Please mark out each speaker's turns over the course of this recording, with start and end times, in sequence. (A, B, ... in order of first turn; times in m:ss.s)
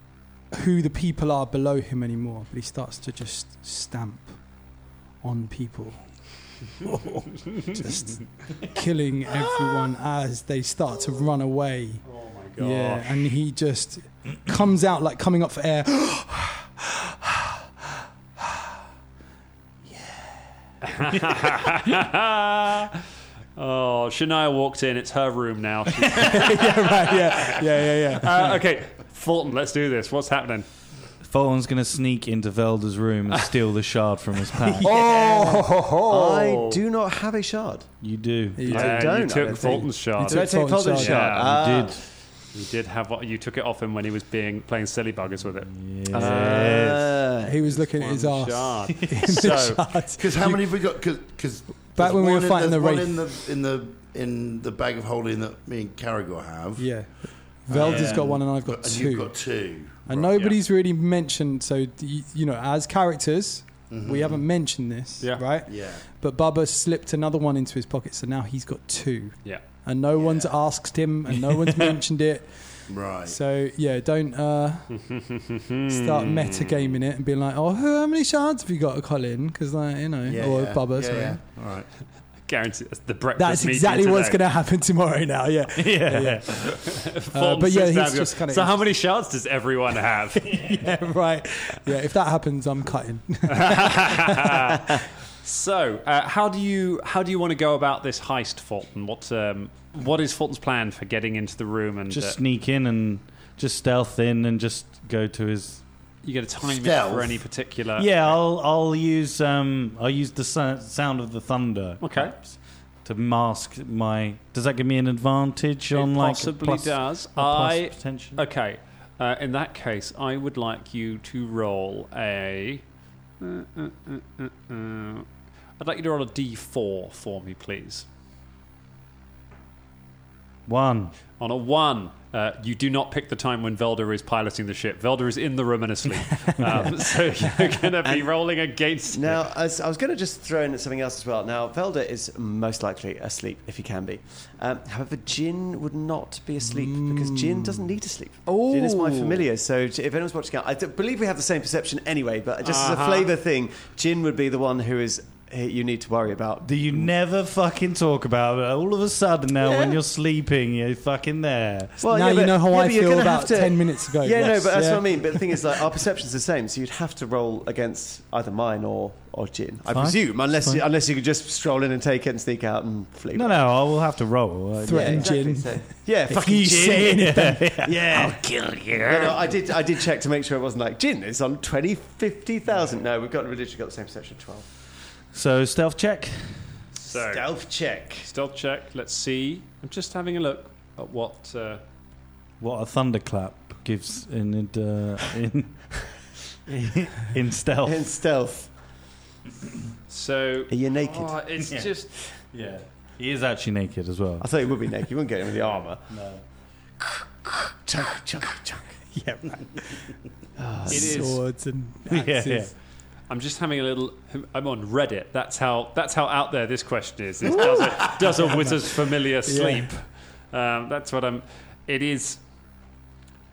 0:00.5-0:04.4 A
0:05.2-0:06.0 A
0:06.9-0:07.2 B
0:07.7-0:12.0 A
0:12.0-0:13.3 C
0:12.6-0:17.5 A
0:19.9-0:20.3 A
0:20.8-0:23.0 C
0:23.6-0:30.6 C
0:26.1-0:28.6 A
0:31.2-0:34.9 B
0:34.8-0:36.8 C
0:34.9-0:37.9 D
0:38.0-0:38.8 B
0:38.6-0:41.3 A
0:38.7-0:42.0 D
0:38.7-0:41.6 C
0:41.3-0:42.0 B
0:42.5-0:45.7 C
0:45.7-0:47.2 B
0:46.1-0:47.6 D
0:47.4-0:50.6 A
0:47.7-0:49.8 C
0:50.2-0:56.9 E
0:52.0-0:53.3 A
0:56.8-0:59.3 A
0:57.7-1:00.3 E
0:57.8-0:58.3 B
1:00.0-1:12.5 A
1:03.9-1:04.4 E
1:05.7-1:06.0 E
1:10.2-1:10.5 E
1:11.5-1:12.0 B
1:12.9-1:13.4 E
1:13.2-1:14.9 A
1:15.0-1:16.9 C
1:15.9-1:21.4 A
1:20.2-1:21.9 E
1:22.5-1:24.4 C
1:23.4-1:26.8 A
1:25.8-1:26.9 B
1:26.7-1:30.6 C
1:27.3-1:28.8 A
1:30.4-1:34.7 A
1:33.5-1:42.4 C
1:42.1-1:45.8 B
1:46.2-1:48.3 C
1:46.6-1:47.4 E
1:48.0-1:58.4 B
1:52.0-1:52.3 C
1:55.9-2:02.8 C
2:03.4-2:05.3 C
2:05.8-2:08.0 C
2:10.7-2:11.1 B
2:11.4-2:19.4 C
2:18.0-2:18.3 D
2:19.1-2:37.1 D
2:26.6-2:27.9 A
2:28.9-2:29.2 C
2:32.6-2:33.3 C
2:36.6-2:42.0 B
2:39.6-2:40.0 D
2:42.0-2:53.8 D
2:42.1-2:45.5 A
2:49.9-2:50.8 B
2:53.3-2:55.3 B
2:54.8-2:57.3 D
2:54.8-2:57.9 A
2:56.6-2:59.6 B
2:57.8-2:58.4 D
2:59.0-3:04.7 D
3:05.3-3:06.6 B
3:07.0-3:08.3 D
3:07.0-3:07.5 C
3:08.2-3:11.8 C
3:12.6-3:15.8 B
3:16.7-3:18.0 B
3:17.8-3:18.7 D
3:20.1-3:22.1 C
3:20.7-3:21.4 D
3:22.5-3:24.9 B
3:24.4-3:26.0 D
3:26.1-3:26.4 B
3:27.9-3:28.8 D
3:29.1-3:30.1 A
3:30.6-3:31.4 D
3:30.9-3:32.7 A
3:30.9-3:31.4 C
3:32.1-3:32.7 B
3:33.3-3:42.4 C
3:37.5-3:38.8 A
3:39.4-3:39.9 A